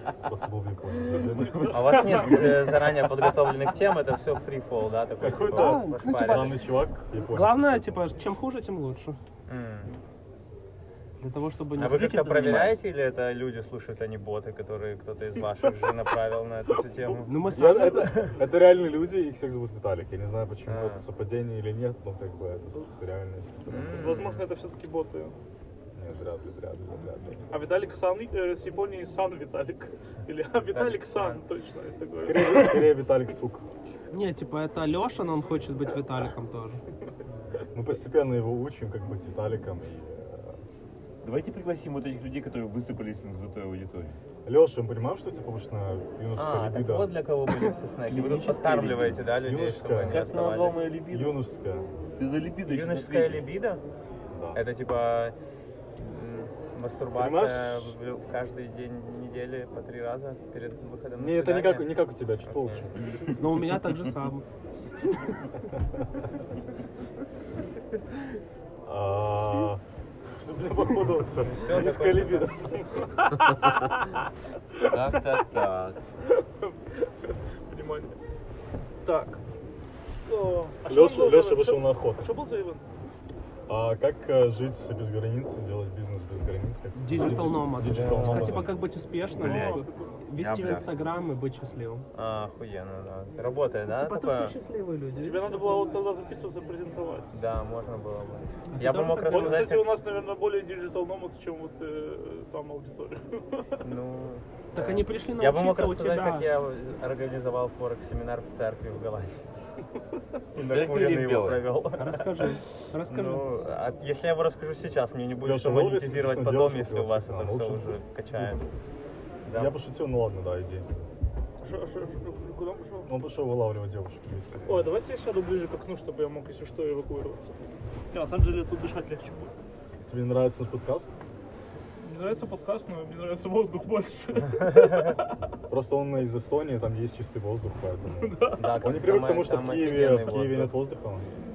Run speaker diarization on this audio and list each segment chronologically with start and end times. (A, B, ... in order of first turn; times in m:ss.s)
0:00.2-0:02.4 A
0:01.6-0:02.5 B
0:01.7-0:06.5 C
0:05.2-0:08.2 A
0:05.3-0:06.6 D
0:07.1-0:09.2 D
0:09.5-0:09.9 C
0:11.2-0:12.8 D
0:11.8-0:18.3 C
0:17.2-0:18.1 D
0:17.4-0:24.2 A
0:20.7-0:21.0 C
0:23.7-0:24.5 C
0:23.9-0:25.3 B
0:25.9-0:27.5 A
0:27.5-0:32.8 B
0:30.7-0:31.4 C
0:32.2-0:33.6 A
0:34.1-0:36.8 D
0:37.7-0:40.6 A
0:41.2-0:44.2 E
0:44.4-0:47.1 A
0:46.4-0:50.8 C
0:48.1-0:49.2 E
0:49.4-0:50.3 A
0:50.0-0:51.4 E
0:51.1-0:51.9 A
0:52.2-0:53.5 E
0:52.6-0:53.8 C
0:54.3-0:54.6 A
0:54.5-0:55.3 C
0:56.0-1:02.8 C
0:57.2-0:58.0 A
1:01.2-1:03.2 A
1:03.4-1:04.4 D
1:08.8-1:12.9 A
1:11.4-1:12.5 C
1:13.3-1:13.9 B
1:14.9-1:16.0 E
1:16.3-1:17.1 B
1:17.7-1:18.1 B
1:19.0-1:19.4 B
1:20.2-1:22.8 B
1:20.9-1:22.3 A
1:23.7-1:28.8 A
1:27.0-1:32.0 D
1:27.2-1:28.7 C
1:29.3-1:30.0 B
1:29.4-1:29.8 E
1:30.4-1:31.0 E
1:32.1-1:34.5 C
1:33.9-1:35.8 D
1:35.2-1:37.3 B
1:37.3-1:40.0 C
1:38.7-1:39.7 D
1:39.2-1:43.9 B
1:43.8-1:49.4 C
1:44.7-1:46.5 D
1:50.5-1:51.7 E
1:50.6-1:58.6 C
1:52.0-1:53.4 D
1:55.4-1:58.6 A
1:59.4-1:59.7 C
1:59.5-2:00.9 A
2:01.6-2:03.1 B
2:03.1-2:04.9 A
2:04.6-2:07.6 B
2:08.1-2:09.5 B
2:10.0-2:11.2 A
2:12.0-2:15.2 B
2:14.8-2:15.1 C
2:15.7-2:21.3 A
2:18.2-2:18.8 B
2:18.5-2:20.7 C